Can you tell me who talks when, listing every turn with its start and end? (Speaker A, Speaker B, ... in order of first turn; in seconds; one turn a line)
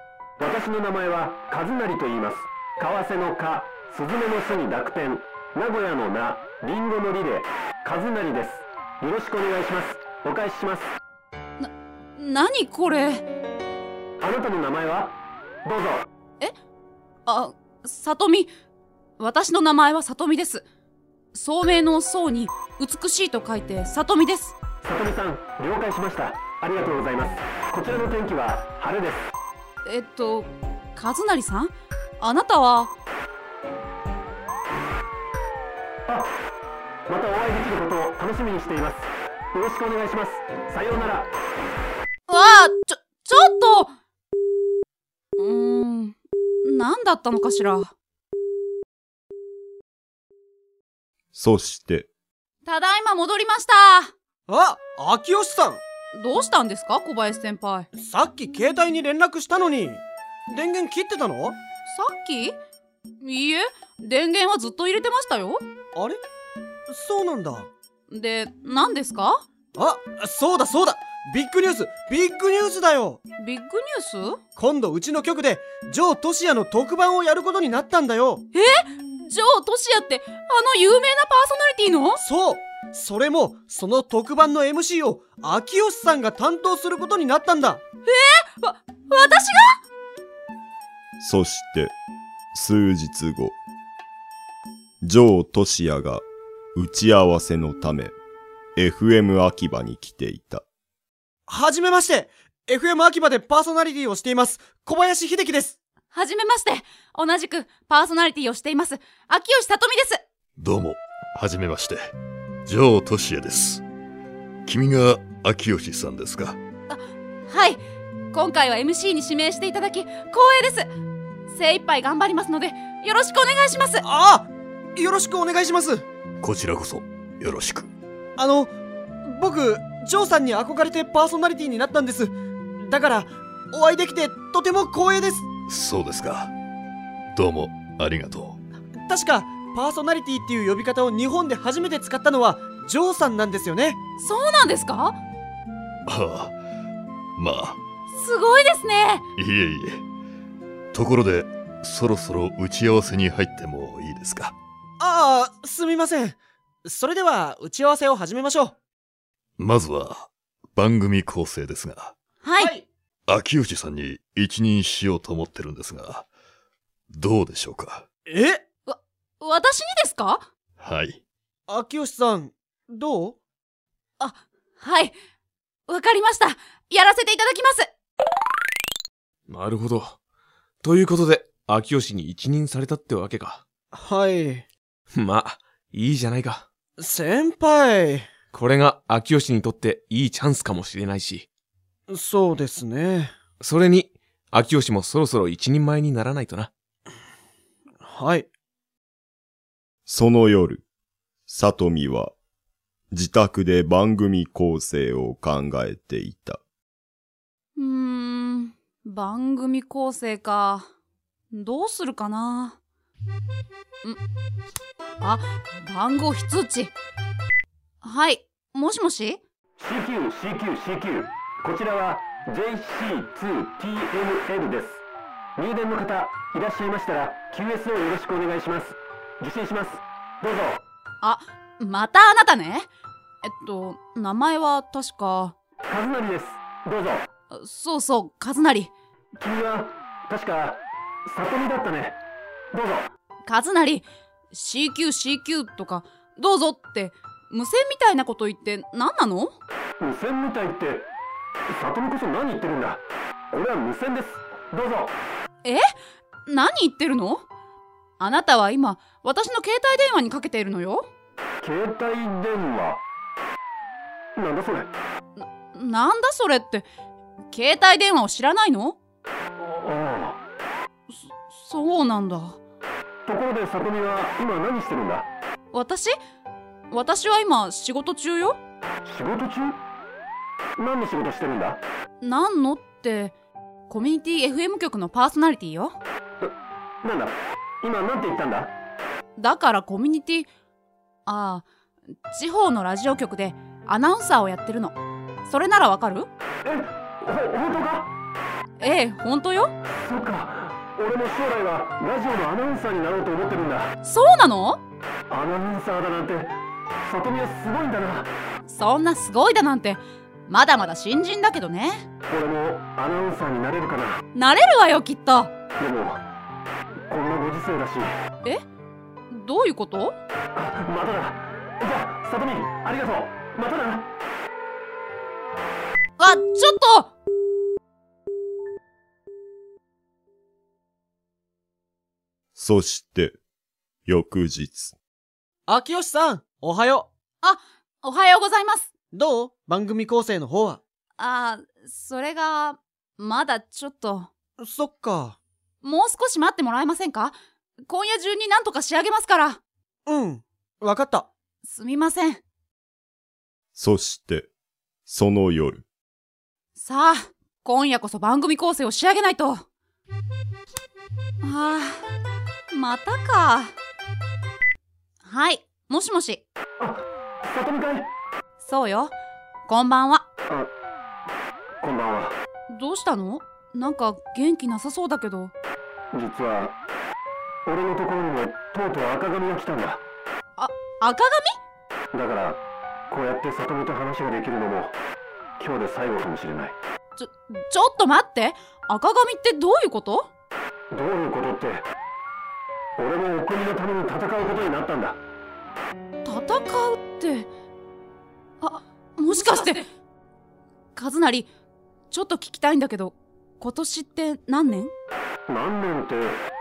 Speaker A: 0.4-11.0
Speaker B: 11.6-13.3
Speaker A: 14.2-16.1
Speaker B: 17.3-18.5
Speaker B: 19.2-20.6
Speaker B: 21.3-24.6
Speaker A: 24.8-29.3
Speaker B: 29.9-32.9
Speaker A: 36.1-36.4
Speaker A: 37.1-41.3
Speaker B: 42.3-43.9
Speaker B: 45.4-47.9
Speaker C: 51.3-52.1
Speaker B: 52.6-54.1
Speaker D: 54.5-55.8
Speaker B: 56.1-57.9
Speaker D: 58.0-61.6
Speaker B: 61.9-62.6
Speaker B: 63.2-65.6
Speaker D: 66.9-67.7
Speaker B: 68.1-69.4
Speaker D: 69.8-73.2
Speaker B: 73.4-74.4
Speaker D: 74.6-78.4
Speaker B: 78.5-82.2
Speaker D: 82.2-87.8
Speaker B: 88.1-89.8
Speaker C: 91.2-92.0
Speaker C: 92.5-93.6
Speaker C: 95.0-96.2
Speaker C: 96.8-98.1
Speaker C: 98.8-100.6
Speaker D: 101.5-105.8
Speaker B: 106.1-110.2
Speaker E: 110.6-112.1
Speaker E: 112.7-113.8
Speaker E: 114.7-116.6
Speaker B: 116.9-117.8
Speaker B: 118.3-120.9
Speaker B: 121.5-124.1
Speaker D: 124.0-126.0
Speaker E: 126.4-127.9
Speaker D: 128.4-128.7
Speaker D: 129.2-135.5
Speaker E: 135.7-136.5
Speaker E: 137.3-138.6
Speaker D: 139.1-144.0
Speaker B: 144.2-145.2
Speaker E: 146.1-146.6
Speaker E: 147.4-147.8
Speaker B: 148.1-149.2
Speaker E: 149.4-150.0
Speaker E: 150.9-154.6
Speaker D: 155.0-158.8
Speaker E: 159.6-162.2
Speaker B: 162.4-162.7
Speaker D: 162.6-162.9
Speaker E: 163.3-166.3
Speaker E: 167.1-168.1
Speaker D: 168.3-168.6
Speaker B: 168.9-170.4
Speaker E: 170.8-171.2
Speaker D: 171.7-173.4
Speaker B: 174.2-175.1
Speaker B: 175.9-177.9
Speaker F: 179.5-180.2
Speaker F: 180.8-183.6
Speaker D: 183.9-184.7
Speaker F: 185.1-186.7
Speaker D: 187.0-188.3
Speaker F: 188.5-191.5
Speaker D: 192.1-193.3
Speaker F: 193.6-196.7
Speaker D: 198.0-198.5
Speaker C: 200.1-200.8
Speaker C: 201.5-202.3
Speaker C: 203.1-206.6
Speaker B: 207.8-210.9
Speaker B: 211.5-212.8
Speaker B: 215.2-216.9
Speaker B: 218.0-219.4
Speaker A: 219.8-225.0
Speaker A: 225.6-230.8
Speaker B: 231.2-232.9
Speaker B: 233.4-235.6
Speaker A: 235.9-237.3
Speaker B: 237.5-238.9
Speaker A: 239.4-242.2
Speaker A: 242.7-243.1
Speaker B: 243.5-249.6
Speaker A: 250.0-251.1
Speaker A: 251.7-255.2
Speaker B: 256.5-257.5
Speaker B: 258.2-261.1
Speaker A: 261.6-263.0
Speaker A: 264.4-264.9
Speaker B: 265.4-266.9
Speaker B: 267.5-269.0
Speaker A: 269.6-270.4
Speaker B: 271.1-272.6
Speaker A: 273.2-275.3
Speaker B: 275.7-276.1
Speaker B: 276.9-278.6
Speaker A: 279.1-279.8
Speaker A: 280.8-281.8
Speaker B: 282.2-283.4
Speaker B: 283.9-286.0
Speaker A: 286.4-288.8
Speaker B: 289.4-290.5
Speaker B: 291.3-291.7
Speaker B: 292.3-296.3
Speaker A: 296.6-298.1
Speaker B: 298.8-299.7
Speaker A: 299.9-303.9
Speaker B: 304.0-304.8
Speaker A: 305.3-308.3
Speaker B: 308.7-312.0
Speaker A: 312.3-314.2
Speaker B: 314.3-315.5
Speaker A: 315.8-316.2
Speaker A: 317.1-318.2
Speaker B: 319.3-320.2
Speaker A: 320.6-324.1
Speaker B: 326.2-327.1
Speaker C: 332.6-333.4
Speaker C: 334.1-335.0
Speaker D: 335.7-337.1
Speaker B: 337.4-338.9
Speaker D: 339.1-340.8
Speaker B: 341.2-344.3
Speaker D: 344.6-345.4
Speaker B: 345.8-349.6
Speaker D: 350.1-351.3
Speaker B: 351.6-352.4
Speaker C: 353.8-354.5
Speaker C: 355.1-355.9
Speaker B: 356.8-359.6
Speaker B: 361.4-362.0
Speaker B: 362.7-363.7
Speaker B: 365.2-366.4
Speaker A: 366.8-368.1
Speaker B: 368.6-369.1
Speaker B: 369.7-370.3
Speaker A: 371.8-372.4
Speaker B: 372.7-375.5
Speaker A: 376.1-376.8
Speaker A: 377.7-380.0
Speaker B: 380.6-381.6
Speaker A: 382.1-385.0
Speaker A: 385.6-386.8
Speaker B: 387.2-390.3
Speaker A: 390.9-391.9
Speaker A: 393.0-395.2
Speaker B: 396.2-397.5
Speaker B: 398.6-399.9
Speaker B: 400.9-401.5
Speaker B: 402.1-404.9
Speaker A: 405.5-406.5